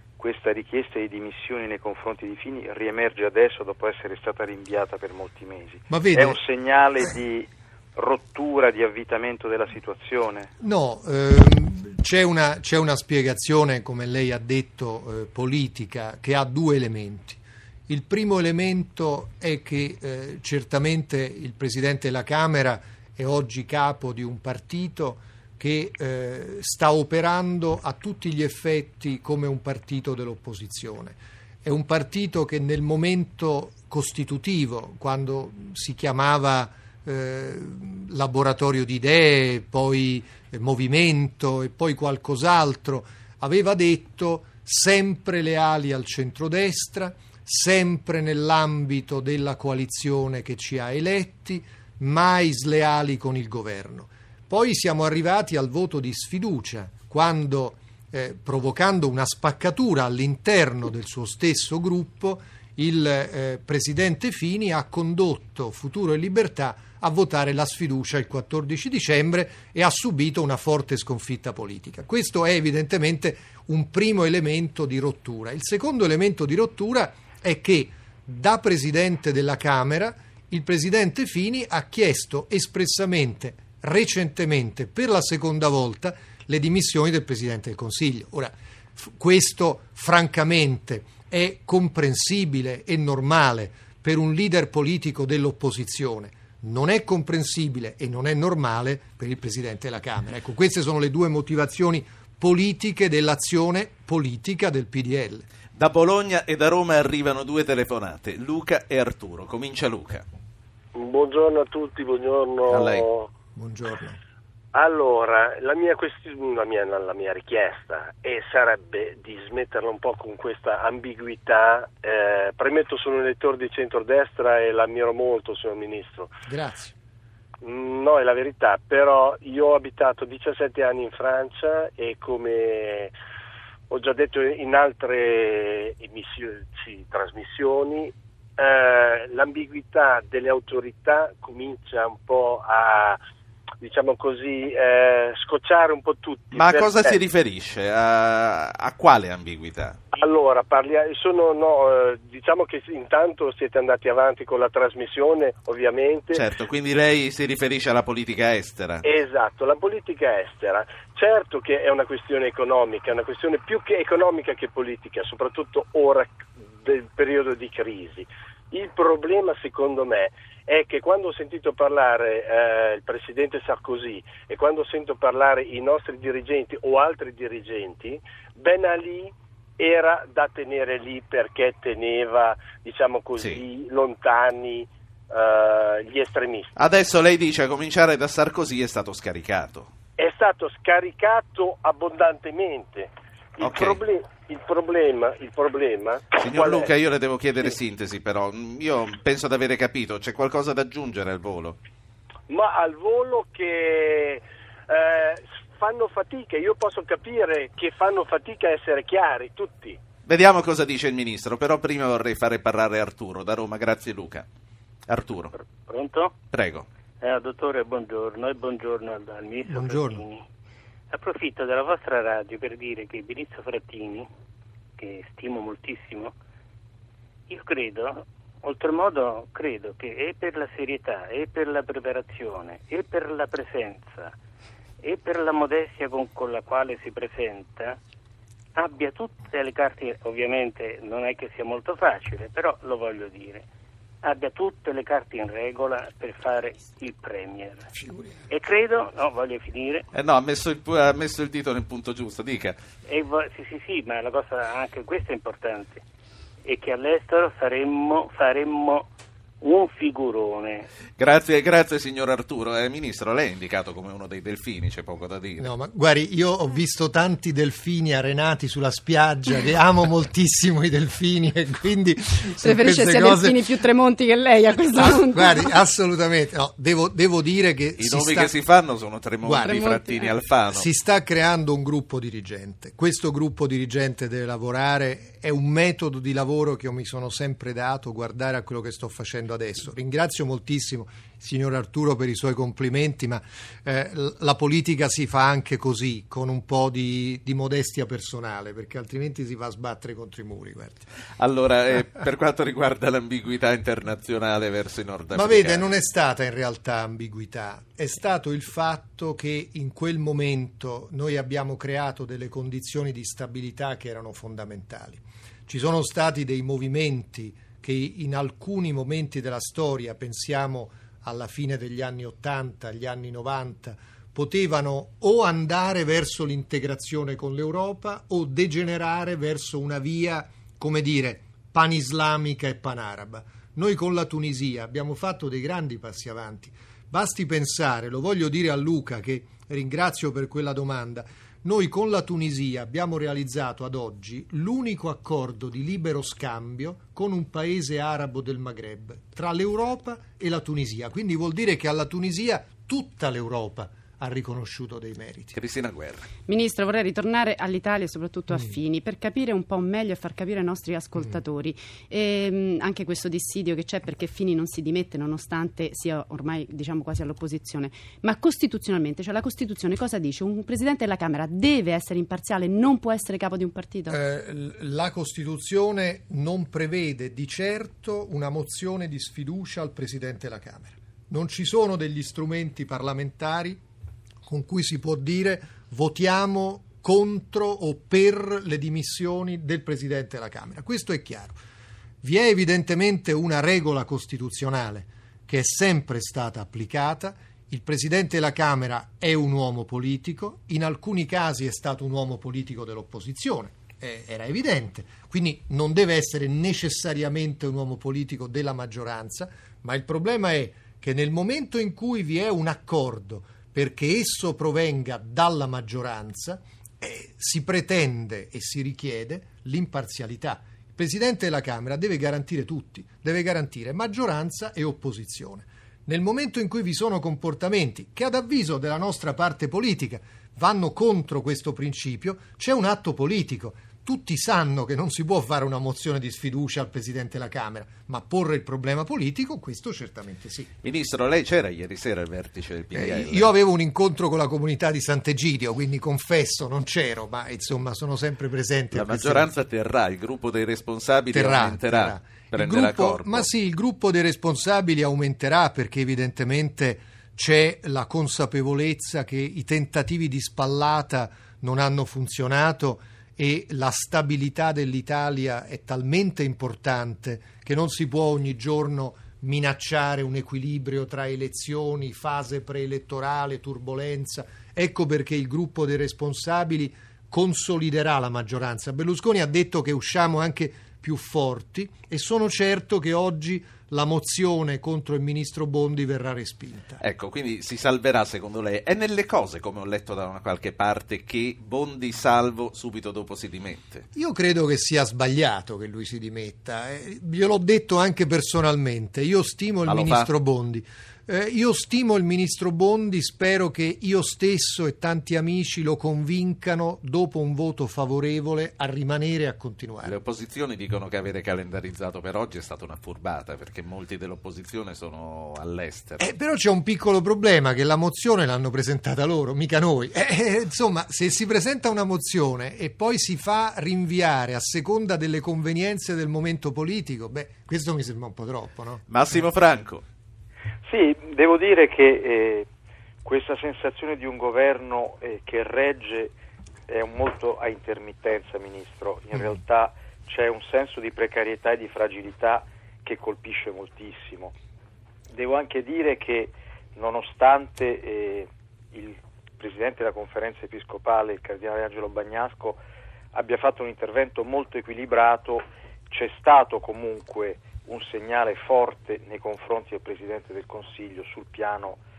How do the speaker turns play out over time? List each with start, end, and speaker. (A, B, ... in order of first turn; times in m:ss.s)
0:00.2-0:10.5 A
0:05.9-0:06.4 B
0:10.6-1:45.4 B
1:45.8-1:50.2 C
1:50.9-1:53.3 D
1:52.7-1:53.0 C
1:53.5-1:54.2 B
1:54.7-2:06.3 D
2:06.4-2:06.9 B
2:07.6-2:13.1 D
2:13.9-2:23.2 D
2:23.8-2:27.2 D
2:26.5-2:30.0 C
2:30.1-2:36.4 D
2:36.3-2:39.0 C
2:39.0-3:06.7 D
3:03.4-3:03.6 C
3:06.8-3:09.9 C
3:10.2-3:16.9 D
3:13.6-3:14.0 C
3:16.4-3:21.8 C
3:22.5-3:30.0 D
3:30.2-3:34.4 C
3:35.1-3:35.5 C
3:35.5-3:36.3 E
3:36.5-3:36.8 C
3:37.2-3:40.4 E
3:39.7-3:40.2 B
3:41.1-3:44.3 E
3:45.0-3:46.3 E
3:47.5-3:54.3 E
3:55.0-3:58.0 E
3:58.7-4:03.6 E
4:04.2-4:07.9 E
4:08.0-4:08.3 B
4:08.5-4:10.0 E
4:10.1-4:12.8 C
4:13.0-4:16.0 E
4:16.6-4:19.1 E
4:19.6-4:20.8 E
4:21.2-4:25.7 C
4:25.6-4:33.6 B
4:32.6-4:35.7 F
4:35.0-4:38.5 B
4:38.0-4:40.9 C
4:39.4-4:39.8 B
4:39.7-4:40.3 F
4:40.7-5:01.1 B
5:01.4-5:05.8 C
5:05.3-5:55.6 B
5:55.5-5:56.3 C
5:56.5-6:14.2 F
6:14.1-6:23.8 B
6:24.4-6:31.6 B
6:32.2-7:20.7 B
7:20.8-7:23.5 C
7:22.9-7:29.5 B
7:28.9-7:33.5 C
7:31.3-8:07.0 B
8:07.0-8:14.0 C
8:14.1-8:30.2 B
8:19.9-8:20.3 C
8:30.0-8:36.2 C
8:36.2-8:49.0 B
8:49.1-8:50.0 C
8:50.8-8:52.7 A
8:53.2-8:56.3 A
8:56.9-9:04.5 A
9:05.3-9:12.8 A
9:13.3-9:22.0 A